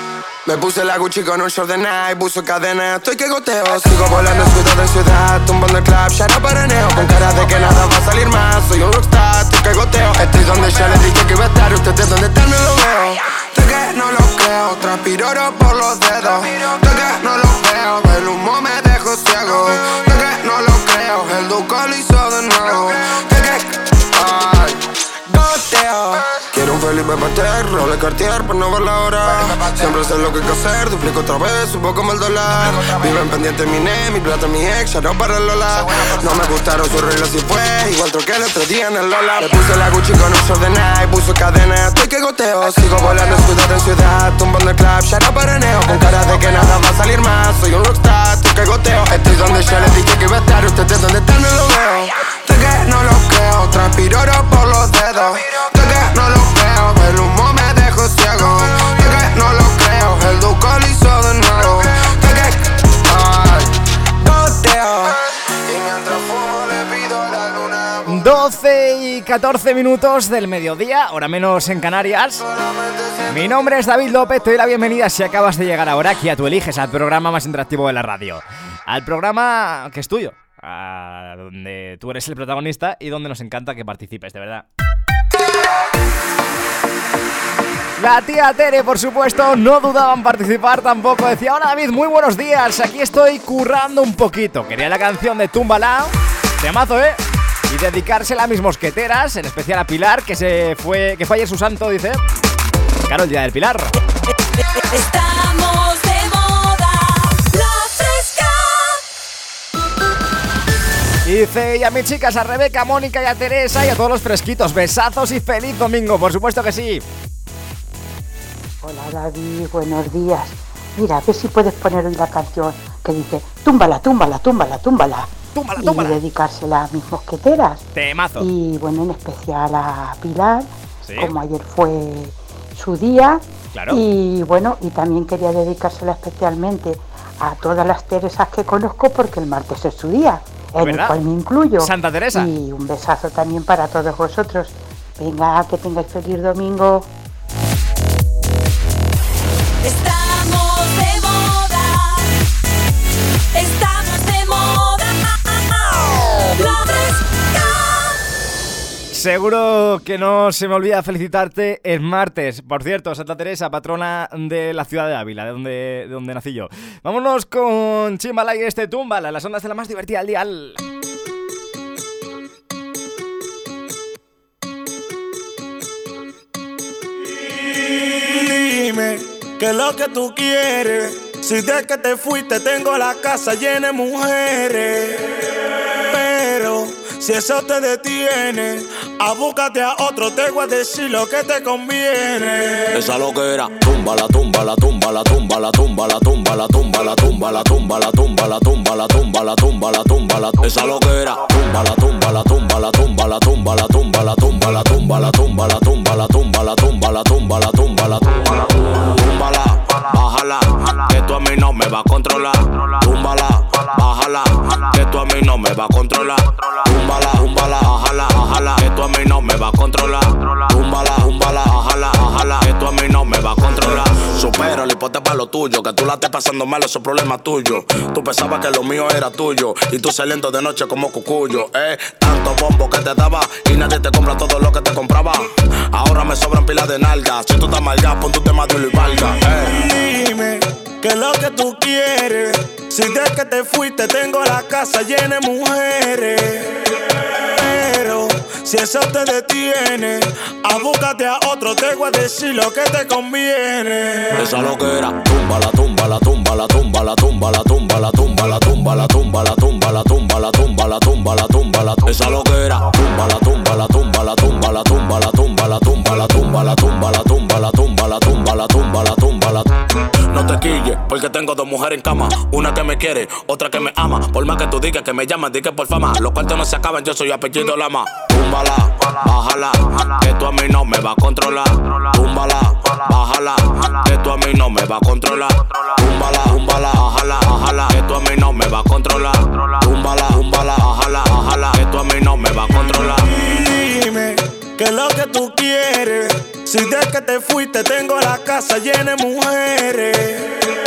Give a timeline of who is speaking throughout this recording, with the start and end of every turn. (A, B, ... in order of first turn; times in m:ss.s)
0:00.4-1:08.1 A
1:08.0-1:12.4 B
1:12.5-1:13.3 A
1:13.3-1:24.6 B
1:28.0-1:42.2 B
1:43.1-1:43.9 B
1:44.7-1:49.0 C
1:51.2-1:57.0 B
1:58.8-2:07.9 D
2:05.5-2:06.2 B
2:07.9-2:08.5 B
2:08.4-2:27.1 D
2:11.0-2:11.3 B
2:13.7-2:14.0 B
2:20.8-2:21.2 B
2:21.8-2:22.5 B
2:29.8-2:32.3 C
2:33.5-2:38.2 C
2:39.1-2:50.8 B
2:57.8-3:05.3 E
3:06.1-3:13.0 E
3:12.9-3:59.8 F
3:59.5-4:06.8 E
4:07.3-4:14.4 E
4:14.4-4:29.7 F
4:30.3-4:53.3 F
4:53.3-5:00.6 E